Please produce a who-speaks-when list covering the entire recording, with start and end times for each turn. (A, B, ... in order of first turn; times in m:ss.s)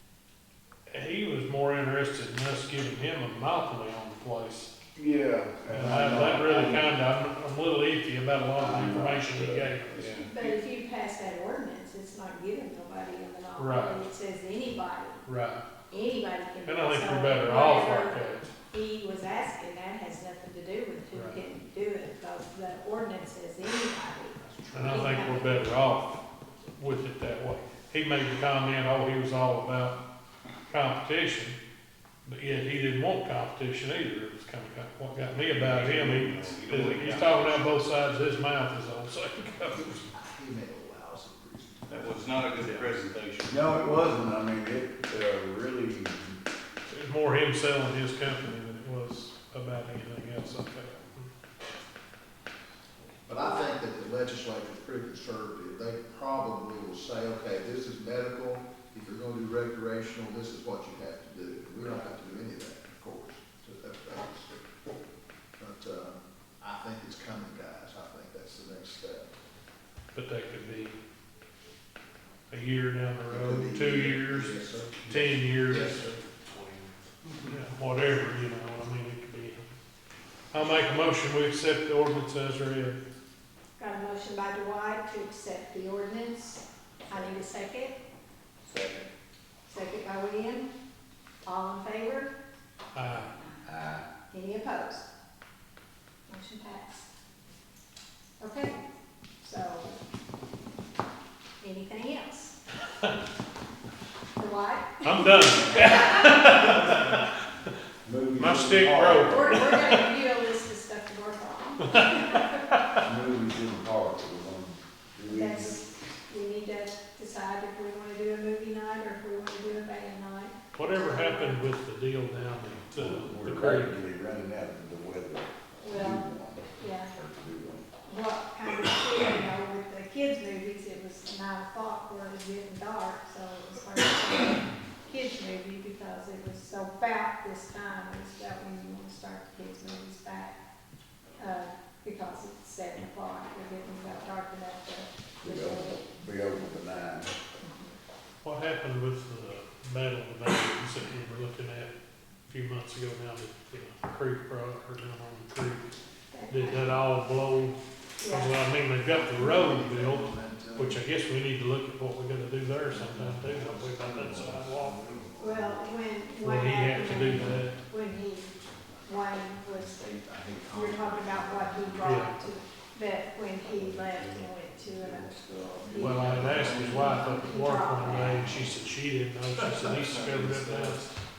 0:00.9-0:04.7 A
0:05.0-0:06.9 B
0:05.7-0:10.0 A
0:08.6-0:10.0 B
0:09.9-0:10.3 C
0:10.3-0:15.2 D
0:13.6-0:14.0 A
0:15.2-0:15.6 A
0:15.9-0:25.6 D
0:16.6-0:18.5 A
0:21.1-0:21.4 A
0:24.7-0:30.0 A
0:30.7-0:31.6 A
0:32.2-0:40.0 A
0:35.5-0:37.7 C
0:39.9-0:42.2 E
0:41.9-0:43.6 C
0:42.6-0:42.8 A
0:43.5-0:46.4 B
0:46.9-0:51.3 A
0:53.3-1:04.7 E
1:05.6-1:09.3 E
1:10.1-1:11.0 A
1:12.5-1:16.7 A
1:13.3-1:16.2 E
1:17.4-1:19.6 A
1:20.5-1:23.0 A
1:23.8-1:28.0 D
1:29.7-1:30.7 D
1:31.4-1:32.3 D
1:32.9-1:33.3 A
1:33.6-1:34.1 B
1:34.3-1:35.1 D
1:36.3-1:37.1 D
1:38.4-1:38.8 D
1:39.4-1:40.0 D
1:41.6-1:42.6 D
1:44.4-1:46.3 D
1:45.0-1:47.3 A
1:46.6-1:47.2 B
1:48.0-1:49.7 B
1:48.4-1:50.0 A
1:49.2-1:52.6 D
1:51.9-1:52.4 A
1:53.0-1:55.9 B
1:55.3-2:01.6 D
2:00.7-2:04.1 A
2:03.0-2:07.9 B
2:05.8-2:07.1 D
2:08.1-2:20.6 D
2:21.4-2:26.0 D
2:25.4-2:27.3 B
2:27.6-2:28.0 D
2:28.4-2:31.9 A
2:32.5-2:35.9 A
2:36.3-2:37.1 D
2:36.5-2:45.0 A
2:38.2-2:38.6 D
2:39.0-2:41.0 E
2:42.9-2:45.9 E
2:45.4-2:48.5 D
2:46.4-2:47.8 A
2:49.0-2:50.1 D
2:49.7-2:52.6 E
2:50.7-2:58.6 D
2:52.0-2:52.4 A
2:53.7-2:57.2 E
2:56.0-3:01.1 A
2:56.2-2:56.8 C
2:59.9-3:01.0 C